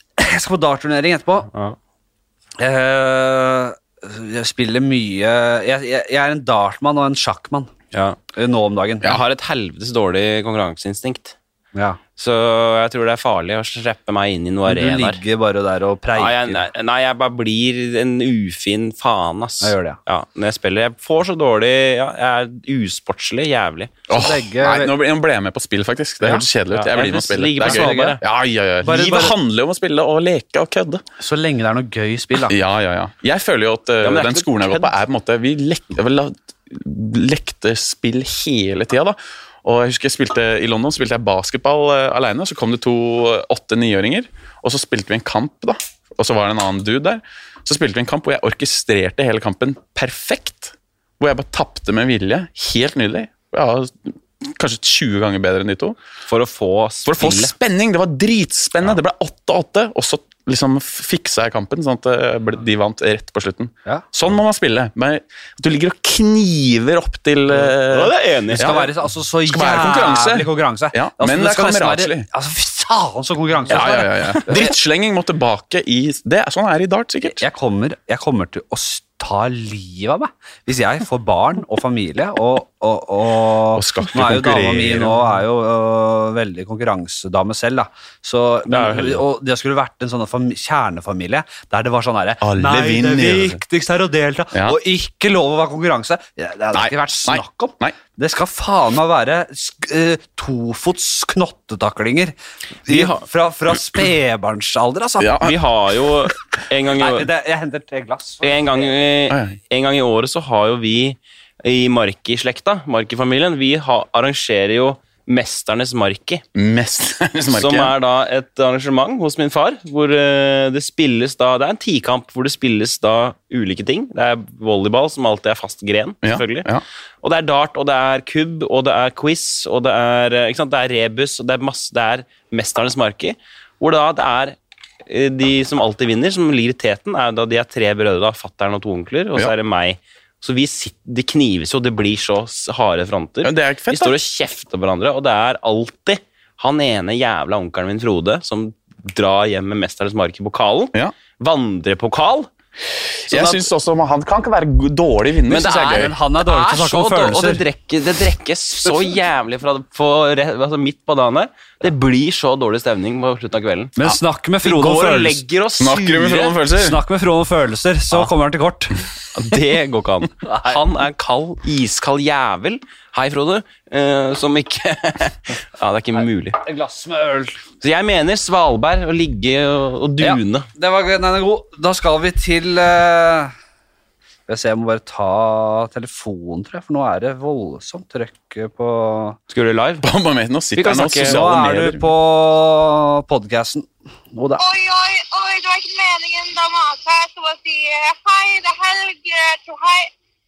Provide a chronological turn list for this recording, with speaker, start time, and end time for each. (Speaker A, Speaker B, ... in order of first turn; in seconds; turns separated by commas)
Speaker A: 0.2-1.5, Speaker A: 2.6-7.7, Speaker B: 7.9-8.2, Speaker A: 8.3-9.1, Speaker B: 9.0-11.3, Speaker A: 11.7-12.0, Speaker B: 12.2-15.2, Speaker A: 14.7-16.7, Speaker B: 16.1-23.9, Speaker A: 19.6-20.0, Speaker C: 24.1-31.0, Speaker A: 24.1-24.9, Speaker B: 26.7-28.2, Speaker A: 27.6-28.2, Speaker A: 28.8-29.4, Speaker A: 31.2-32.5, Speaker C: 32.4-56.0, Speaker B: 34.0-34.9, Speaker B: 56.3-57.5, Speaker C: 57.0-68.8, Speaker B: 67.5-68.9, Speaker A: 68.5-74.7, Speaker C: 69.4-72.3, Speaker C: 73.7-77.4, Speaker B: 73.7-74.4, Speaker A: 77.4-105.4, Speaker C: 83.7-85.3, Speaker B: 88.8-89.1, Speaker C: 92.4-93.6, Speaker C: 96.7-98.0, Speaker B: 102.9-103.2, Speaker C: 105.2-105.5, Speaker B: 105.4-107.3, Speaker A: 107.0-108.5, Speaker B: 108.4-116.4, Speaker C: 109.3-109.6, Speaker C: 116.5-117.9, Speaker B: 117.5-126.7, Speaker C: 126.2-126.8, Speaker B: 127.2-152.5, Speaker C: 143.4-144.2, Speaker B: 153.3-153.7, Speaker C: 153.3-156.1, Speaker B: 155.5-166.6, Speaker A: 155.7-157.6, Speaker A: 164.0-165.4, Speaker C: 165.8-167.0, Speaker A: 166.8-169.0, Speaker B: 169.3-176.6, Speaker A: 170.5-170.7, Speaker A: 176.6-177.6, Speaker B: 177.8-180.7, Speaker A: 180.2-183.5, Speaker A: 184.5-189.4, Speaker B: 189.5-190.1, Speaker C: 190.0-192.1, Speaker B: 190.8-191.6, Speaker A: 191.2-194.6, Speaker D: 194.6-200.1